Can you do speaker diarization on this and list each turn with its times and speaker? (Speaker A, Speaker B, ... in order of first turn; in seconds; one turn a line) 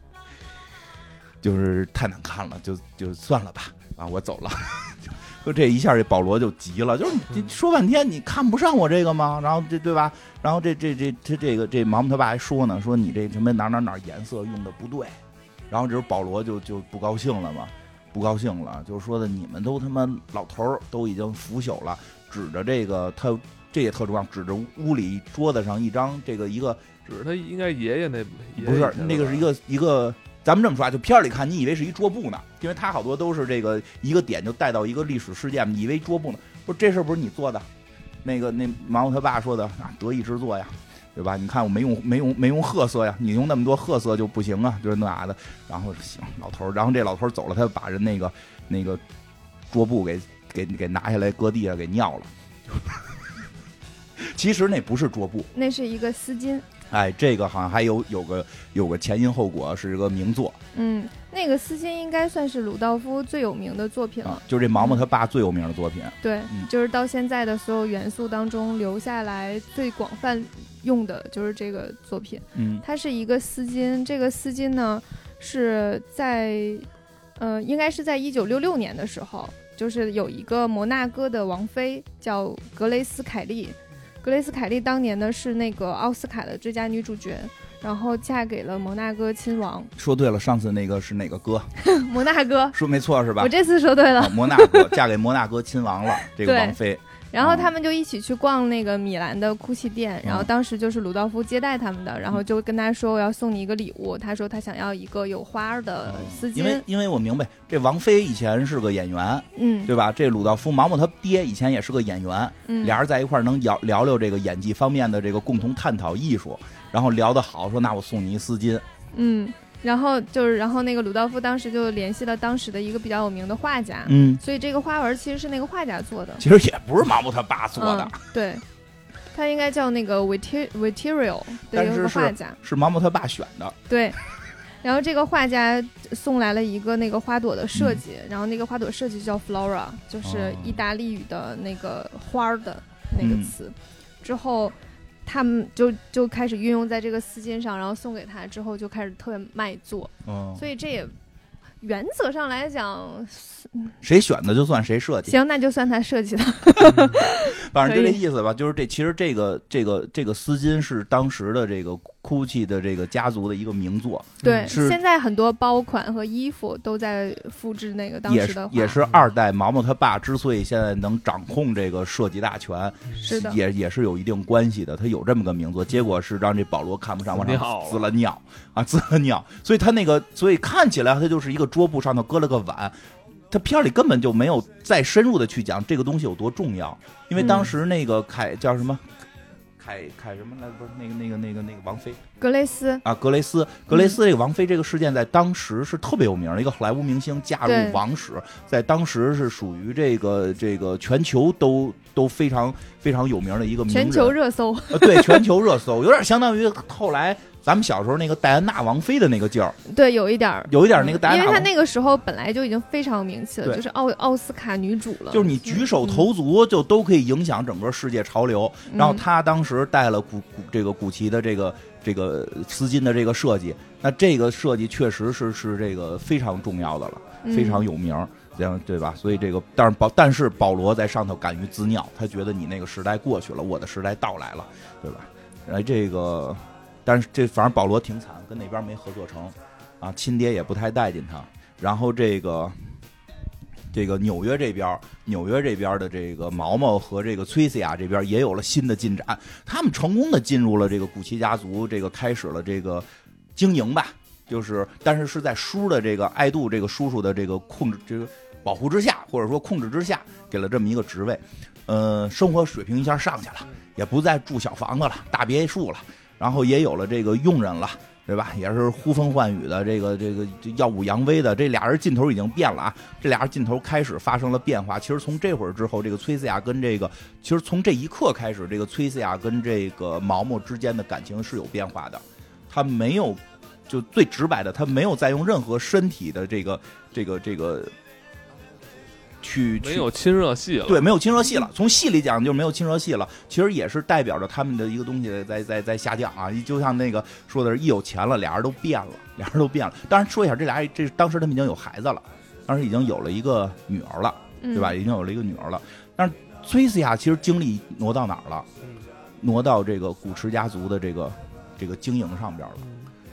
Speaker A: 1.4-15.2
Speaker A: 15.7-26.9
Speaker B: 27.1-29.5
Speaker A: 28.6-37.6
Speaker A: 38.2-49.0
Speaker A: 49.7-53.2
Speaker A: 54.2-55.5
Speaker C: 55.5-56.6
Speaker A: 56.9-60.6
Speaker C: 60.7-65.0
Speaker A: 64.2-66.7
Speaker C: 66.2-89.9
Speaker A: 72.5-72.8
Speaker A: 90.0-91.7
Speaker C: 91.8-92.8
Speaker A: 92.7-93.5
Speaker C: 93.4-95.0
Speaker A: 94.2-97.7
Speaker C: 96.2-96.8
Speaker C: 97.3-106.8
Speaker A: 100.2-100.5
Speaker A: 106.0-118.8
Speaker C: 109.5-109.9
Speaker C: 112.7-113.0
Speaker C: 119.1-126.5
Speaker A: 124.0-124.4
Speaker A: 126.4-128.2
Speaker C: 127.8-128.6
Speaker C: 129.3-132.6
Speaker A: 131.7-133.8
Speaker C: 133.9-134.2
Speaker C: 134.8-144.7
Speaker A: 137.7-138.0
Speaker A: 140.2-140.8
Speaker A: 143.2-143.5
Speaker C: 145.2-151.1
Speaker A: 150.2-150.6
Speaker C: 151.8-153.9
Speaker A: 154.0-155.4
Speaker C: 155.2-158.2
Speaker A: 157.2-165.0
Speaker B: 164.4-164.8
Speaker C: 164.4-169.0
Speaker A: 168.2-182.9
Speaker C: 173.2-173.6
Speaker B: 177.3-178.1
Speaker A: 183.5-189.1
Speaker C: 187.4-187.7
Speaker A: 189.8-192.2
Speaker C: 192.4-193.0
Speaker A: 193.0-204.4
Speaker C: 193.9-194.2
Speaker C: 197.6-198.0
Speaker C: 203.9-205.5
Speaker A: 204.9-209.8
Speaker C: 209.9-216.3
Speaker A: 210.7-211.7
Speaker A: 215.3-242.9
Speaker C: 218.9-219.2
Speaker C: 227.4-227.8
Speaker A: 243.9-287.9
Speaker A: 289.4-290.1
Speaker B: 289.8-291.1
Speaker A: 290.8-308.7
Speaker C: 304.6-305.0
Speaker A: 309.4-312.8
Speaker B: 312.8-313.1